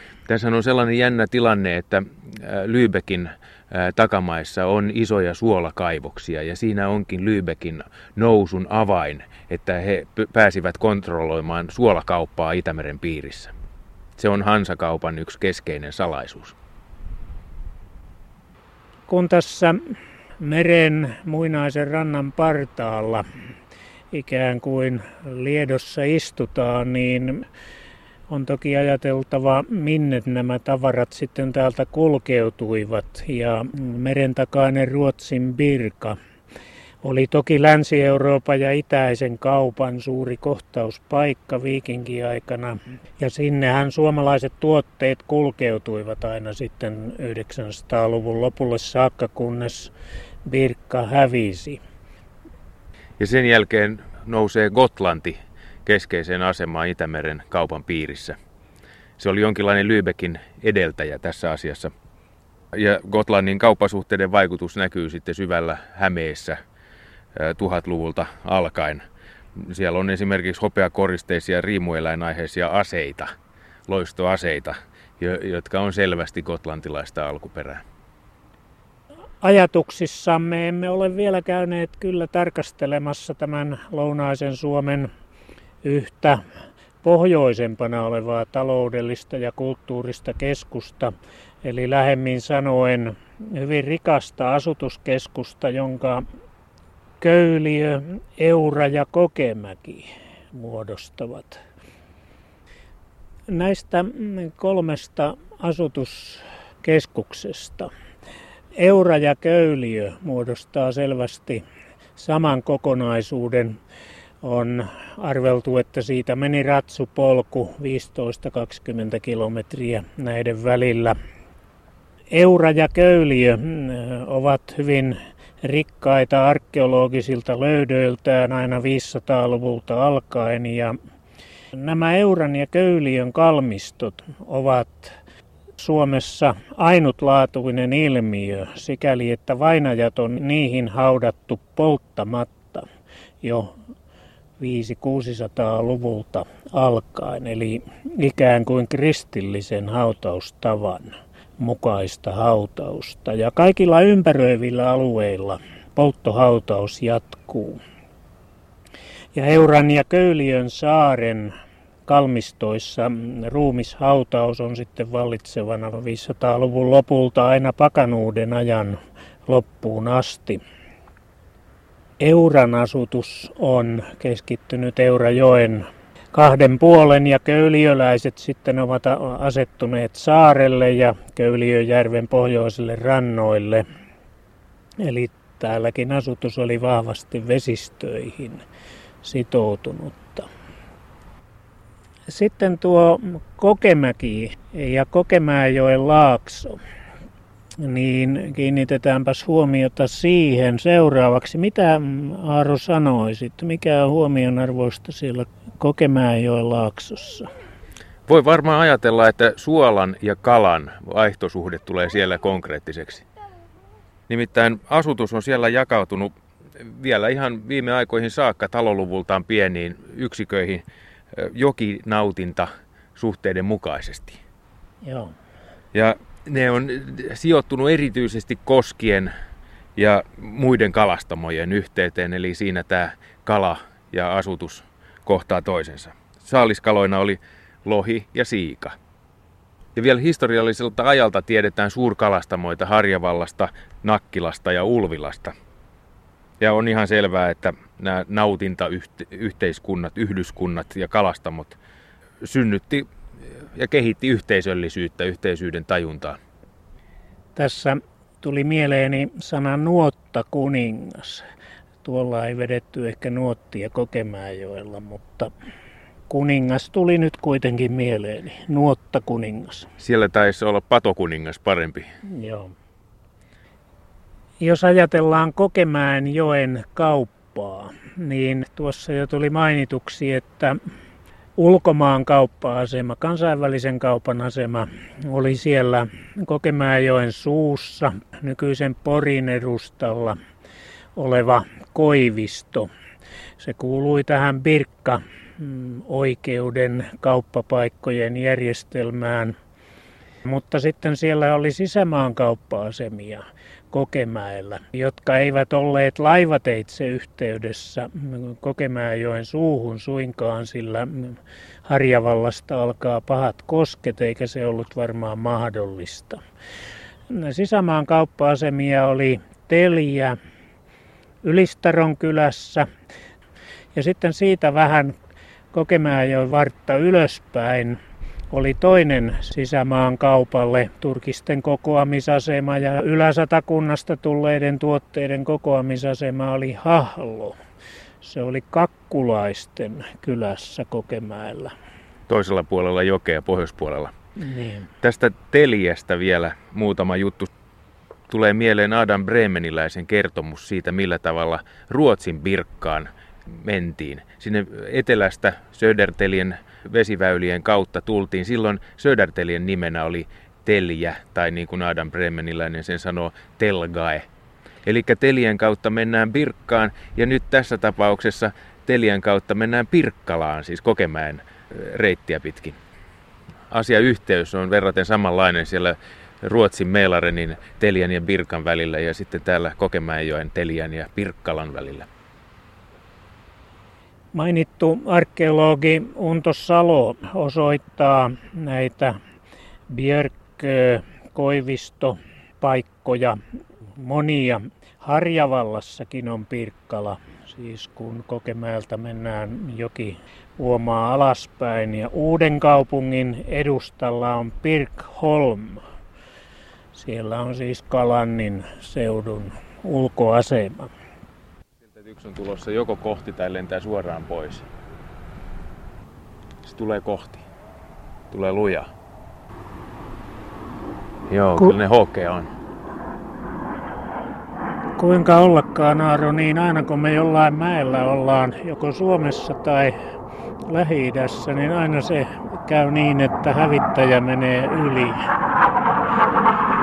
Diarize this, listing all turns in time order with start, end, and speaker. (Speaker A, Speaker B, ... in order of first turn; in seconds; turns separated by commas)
Speaker A: 0.3-13.5, Speaker A: 14.2-16.5, Speaker B: 19.1-23.2, Speaker B: 24.1-27.4, Speaker B: 28.3-36.2, Speaker B: 37.0-49.9, Speaker B: 50.4-51.8, Speaker A: 53.2-58.4, Speaker A: 59.2-61.9, Speaker A: 62.7-66.6, Speaker A: 67.3-69.0, Speaker A: 69.6-73.3, Speaker A: 73.9-77.8, Speaker B: 79.4-85.1, Speaker B: 85.8-86.4, Speaker B: 87.0-96.2, Speaker B: 97.2-101.6, Speaker B: 103.5-107.9, Speaker B: 108.8-111.6, Speaker B: 112.2-113.8, Speaker B: 114.4-121.1, Speaker B: 122.3-131.0, Speaker B: 131.7-135.1, Speaker B: 135.8-142.9, Speaker B: 143.4-143.7, Speaker B: 144.6-157.8, Speaker B: 159.3-161.5, Speaker B: 162.1-170.6, Speaker B: 172.2-183.8, Speaker B: 185.0-188.6, Speaker B: 189.2-190.5, Speaker B: 192.3-196.8, Speaker B: 197.8-207.5, Speaker A: 208.3-213.2, Speaker A: 214.3-224.4, Speaker B: 225.0-225.3, Speaker A: 225.9-229.3, Speaker A: 229.9-238.9, Speaker A: 239.9-245.5, Speaker A: 246.6-251.8, Speaker A: 252.4-253.1, Speaker A: 253.7-256.4, Speaker B: 257.6-261.4, Speaker B: 262.0-265.5, Speaker B: 266.3-269.9, Speaker A: 270.0-272.1, Speaker B: 272.3-272.7, Speaker B: 274.6-280.8, Speaker B: 281.6-290.4, Speaker B: 291.1-292.9, Speaker B: 293.6-299.5, Speaker B: 300.4-316.4, Speaker B: 317.3-320.4, Speaker B: 321.4-322.9, Speaker B: 323.9-325.1, Speaker B: 325.7-328.0, Speaker B: 328.5-337.6, Speaker B: 338.2-341.7, Speaker A: 342.3-344.1, Speaker B: 344.4-344.9, Speaker A: 345.0-347.5, Speaker A: 348.3-364.3, Speaker A: 364.8-372.8, Speaker A: 373.7-382.1, Speaker B: 384.3-389.2, Speaker B: 389.9-393.4, Speaker B: 394.0-405.8, Speaker B: 406.9-410.9, Speaker A: 411.8-414.7, Speaker A: 416.6-417.4, Speaker A: 418.3-418.9, Speaker A: 421.3-422.5, Speaker B: 425.0-429.9, Speaker B: 430.7-435.2